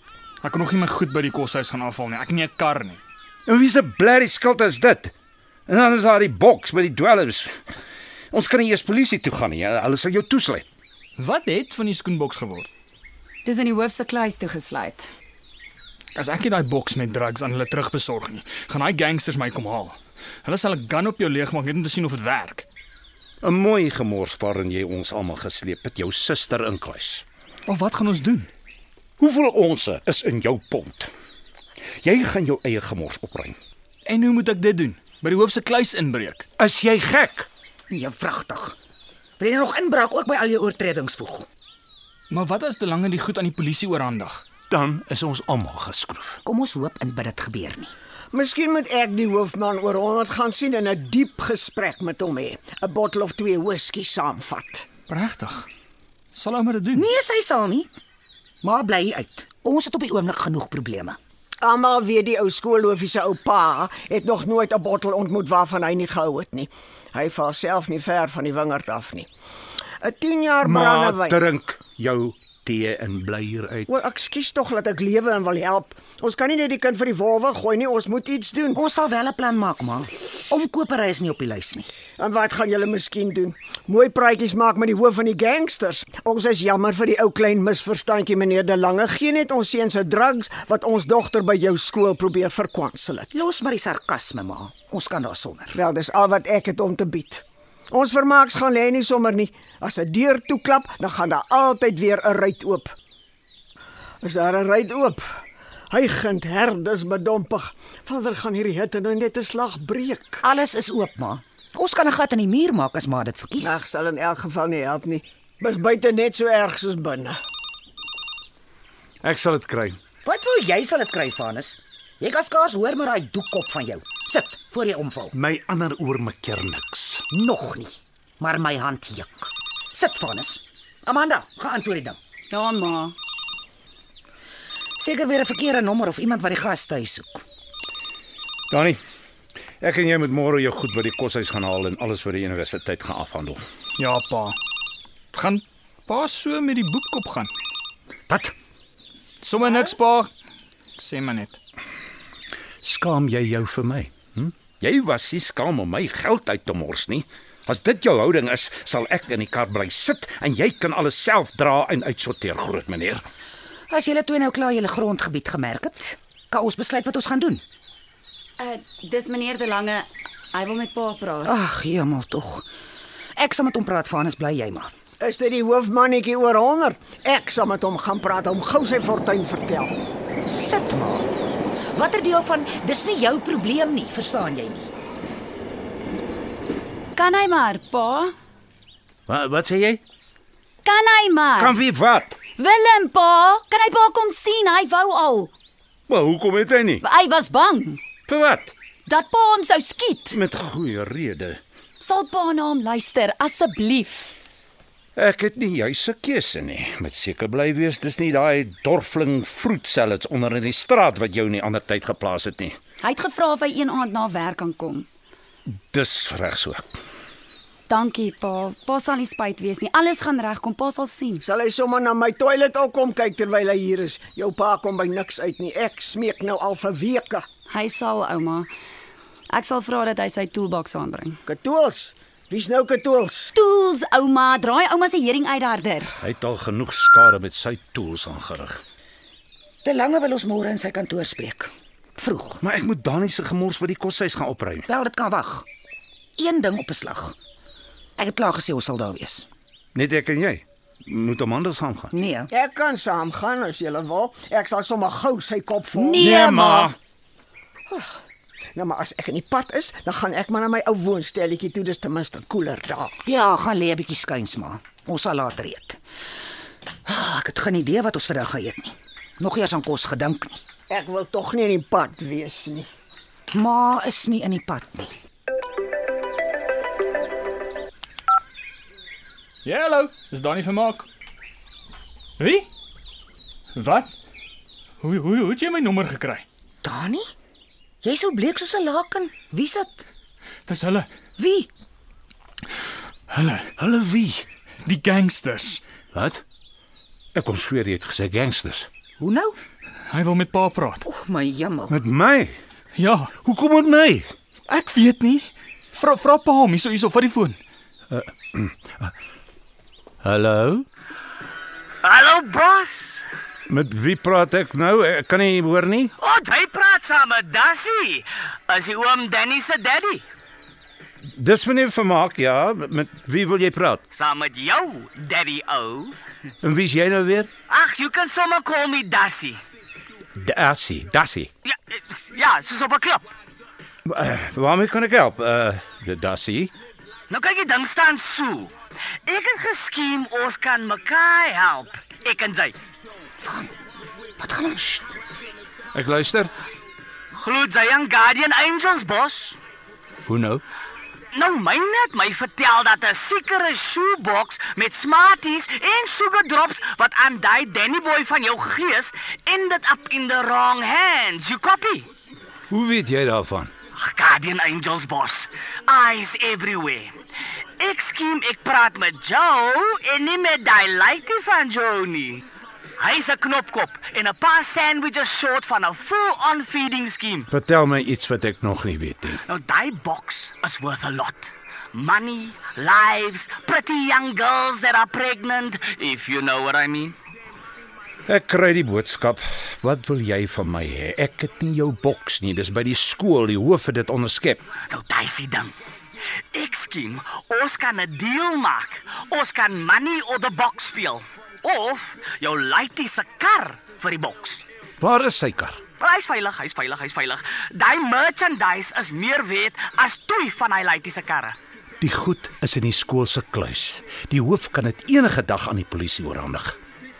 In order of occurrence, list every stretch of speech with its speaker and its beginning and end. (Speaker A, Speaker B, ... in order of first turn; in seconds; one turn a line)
Speaker A: 0.4-3.0
Speaker B: 3.5-5.1
Speaker B: 5.7-7.6
Speaker B: 8.3-10.7
Speaker A: 11.2-12.7
Speaker C: 13.4-15.1
Speaker A: 16.1-22.6
Speaker B: 23.4-27.2
Speaker A: 27.7-28.5
Speaker B: 29.2-31.1
Speaker B: 32.0-33.6
Speaker A: 34.0-36.5
Speaker B: 36.6-37.5
Speaker D: 37.9-38.8
Speaker D: 39.4-41.5
Speaker A: 42.3-44.4
Speaker B: 44.7-46.4
Speaker D: 46.4-47.9
Speaker E: 48.3-54.9
Speaker A: 55.1-55.7
Speaker A: 56.3-57.1
Speaker D: 56.9-57.9
Speaker D: 58.6-61.2
Speaker E: 61.6-69.3
Speaker E: 70.0-71.4
Speaker B: 70.6-73.9
Speaker E: 73.9-78.8
Speaker D: 78.7-81.9
Speaker E: 82.2-93.4
Speaker D: 93.3-95.8
Speaker E: 95.7-102.9
Speaker E: 104.2-105.2
Speaker E: 105.9-110.4
Speaker D: 110.4-113.8
Speaker E: 113.6-117.4
Speaker B: 119.2-120.0
Speaker D: 120.2-125.3
Speaker B: 125.3-127.2
Speaker D: 127.3-132.2
Speaker C: 132.5-133.1
Speaker D: 135.0-137.4
Speaker B: 138.7-139.0
Speaker B: 139.8-143.6
Speaker A: 144.0-144.6
Speaker A: 145.3-147.5
Speaker B: 148.3-148.5
Speaker A: 149.4-150.3
Speaker A: 151.0-151.6
Speaker B: 152.8-163.2
Speaker D: 163.9-167.6
Speaker C: 168.6-171.5
Speaker D: 171.4-172.7
Speaker D: 173.4-174.9
Speaker E: 175.2-179.9
Speaker D: 180.5-181.3
Speaker D: 181.9-184.9
Speaker C: 187.2-188.3
Speaker B: 189.3-190.0
Speaker C: 190.8-191.8
Speaker B: 191.6-192.4
Speaker C: 192.6-195.5
Speaker B: 196.1-197.0
Speaker C: 197.0-198.0
Speaker B: 198.3-198.7
Speaker C: 199.1-200.4
Speaker B: 200.3-201.6
Speaker C: 202.0-204.3
Speaker B: 205.2-212.8
Speaker C: 213.0-215.1
Speaker B: 215.7-216.9
Speaker C: 217.9-221.4
Speaker E: 221.4-227.5
Speaker C: 227.7-228.7
Speaker C: 229.5-231.4
Speaker E: 231.4-233.5
Speaker C: 233.5-236.1
Speaker B: 236.2-238.8
Speaker D: 239.8-242.6
Speaker B: 242.6-244.8
Speaker D: 244.9-245.7
Speaker D: 246.4-247.3
Speaker D: 248.2-249.5
Speaker B: 249.9-252.1
Speaker D: 252.1-252.5
Speaker E: 252.5-256.7
Speaker D: 255.9-256.9
Speaker B: 256.1-256.9
Speaker E: 258.8-263.1
Speaker D: 263.2-266.0
Speaker D: 267.1-270.6
Speaker E: 270.9-272.9
Speaker D: 273.5-275.1
Speaker A: 279.6-281.1
Speaker A: 282.4-282.7
Speaker A: 283.7-284.1
Speaker A: 285.0-286.4
Speaker D: 286.8-287.3
Speaker D: 288.0-290.1
Speaker A: 290.7-291.1
Speaker D: 291.4-291.7
Speaker A: 293.3-293.7
Speaker B: 293.8-294.4
Speaker A: 294.8-295.8
Speaker B: 296.1-296.4
Speaker B: 297.3-298.9
Speaker D: 299.2-299.6
Speaker A: 300.1-301.0
Speaker D: 301.0-301.9
Speaker B: 301.9-302.6
Speaker A: 302.9-303.3
Speaker B: 303.4-304.3
Speaker A: 304.7-307.6
Speaker B: 308.1-309.1
Speaker B: 310.2-310.9
Speaker F: 312.0-313.2
Speaker B: 313.7-316.1
Speaker F: 316.2-320.2
Speaker B: 321.3-324.0
Speaker F: 324.1-326.1
Speaker B: 326.6-327.5
Speaker F: 327.7-329.6
Speaker B: 330.4-331.5
Speaker F: 331.6-333.3
Speaker B: 334.0-336.7
Speaker F: 337.3-338.7
Speaker F: 339.3-342.8
Speaker D: 343.4-343.7
Speaker D: 344.4-345.1
Speaker B: 345.9-346.5
Speaker F: 347.3-349.6
Speaker B: 350.2-350.6
Speaker F: 351.3-362.1
Speaker B: 362.7-363.7
Speaker F: 363.9-367.1
Speaker F: 367.8-372.4
Speaker F: 373.0-377.5
Speaker B: 377.5-379.4
Speaker F: 379.4-387.2
Speaker B: 388.3-394.6
Speaker F: 394.9-395.7
Speaker F: 396.5-404.6
Speaker B: 405.0-405.8
Speaker F: 405.9-411.6
Speaker B: 412.0-416.8